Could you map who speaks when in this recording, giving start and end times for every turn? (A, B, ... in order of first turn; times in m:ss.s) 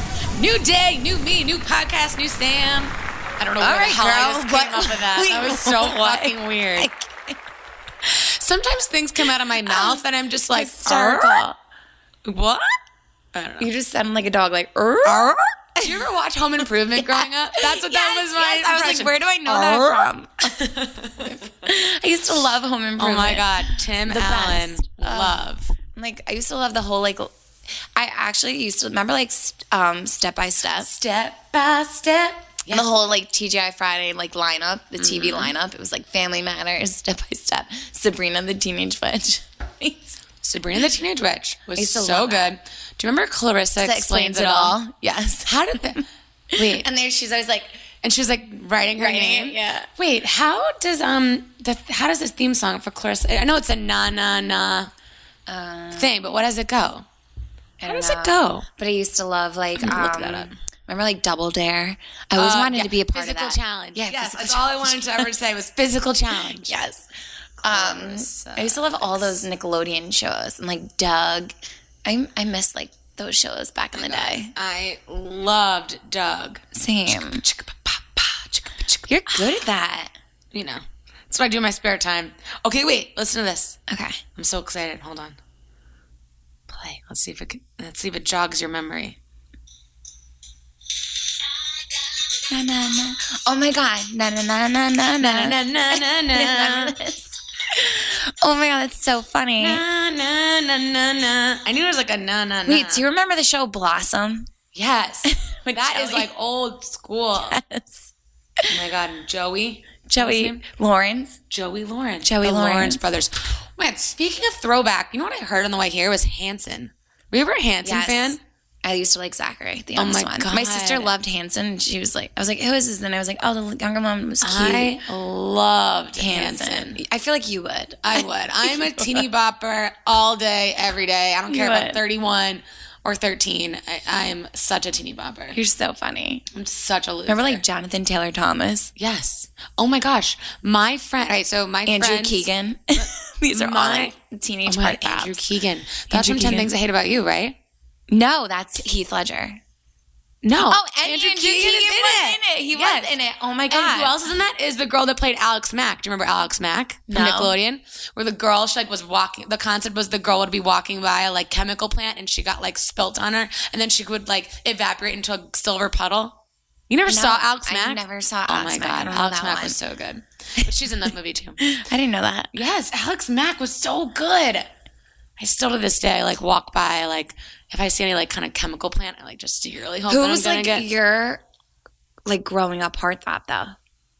0:00.3-0:06.9 A
0:03.6-0:07.4 B
0:08.0-0:11.4 A
0:09.6-0:11.6 B
0:12.2-0:12.7 A
0:13.3-0:13.7 A
0:13.6-0:16.0 B
0:15.0-0:21.4 A
0:17.0-0:20.6 B
0:21.2-0:25.4 B
0:23.0-0:25.7 A
0:25.9-0:27.3 B
0:28.0-0:31.0 B
0:30.8-0:32.9 A
0:32.7-0:40.2 B
0:35.0-0:35.5 A
0:40.4-0:44.8 A
0:41.8-0:42.5 B
0:43.8-0:46.0 B
0:45.4-0:46.8 A
0:46.6-0:47.8 B
0:48.0-0:54.9 A
0:49.0-0:49.9 B
0:55.5-0:56.2 B
0:56.0-0:57.0 A
0:57.8-1:05.4 B
0:57.9-0:58.6 A
0:59.8-1:00.6 A
1:02.4-1:06.7 A
1:06.6-1:07.1 B
1:07.6-1:11.5 B
1:07.6-1:09.4 A
1:12.0-1:14.5 B
1:13.9-1:19.5 A
1:16.7-1:17.4 B
1:19.1-1:20.1 B
1:20.5-1:23.8 A
1:23.9-1:24.2 B
1:24.4-1:25.4 A
1:26.7-1:29.2 A
1:32.5-1:39.8 B
1:35.2-1:36.9 A
1:39.6-1:43.0 A
1:42.6-1:44.5 B
1:44.7-1:47.6 A
1:45.2-1:46.3 B
1:47.5-1:48.7 B
1:48.7-1:50.6 A
1:50.1-1:51.4 B
1:51.5-1:58.4 A
1:52.2-1:53.0 B
1:57.8-2:05.0 B
2:00.0-2:01.1 A
2:04.4-2:07.0 A
2:06.2-2:09.2 B
2:08.0-2:15.6 A
2:11.5-2:12.0 B
2:15.5-2:16.4 B
2:16.5-2:17.6 A
2:17.3-2:18.9 B
2:19.0-2:24.1 A
2:21.8-2:25.4 B
2:24.6-2:27.6 A
2:26.1-2:26.7 B
2:28.1-2:29.6 B
2:30.4-2:33.1 A
2:30.7-2:34.2 B
2:33.7-2:51.6 A
2:37.1-2:37.5 B
2:47.1-2:49.8 B
2:50.6-2:50.9 B
2:51.6-2:52.6 B
2:52.5-2:54.7 A
2:55.4-3:00.9 A
3:00.1-3:01.4 B
3:02.2-3:03.8 B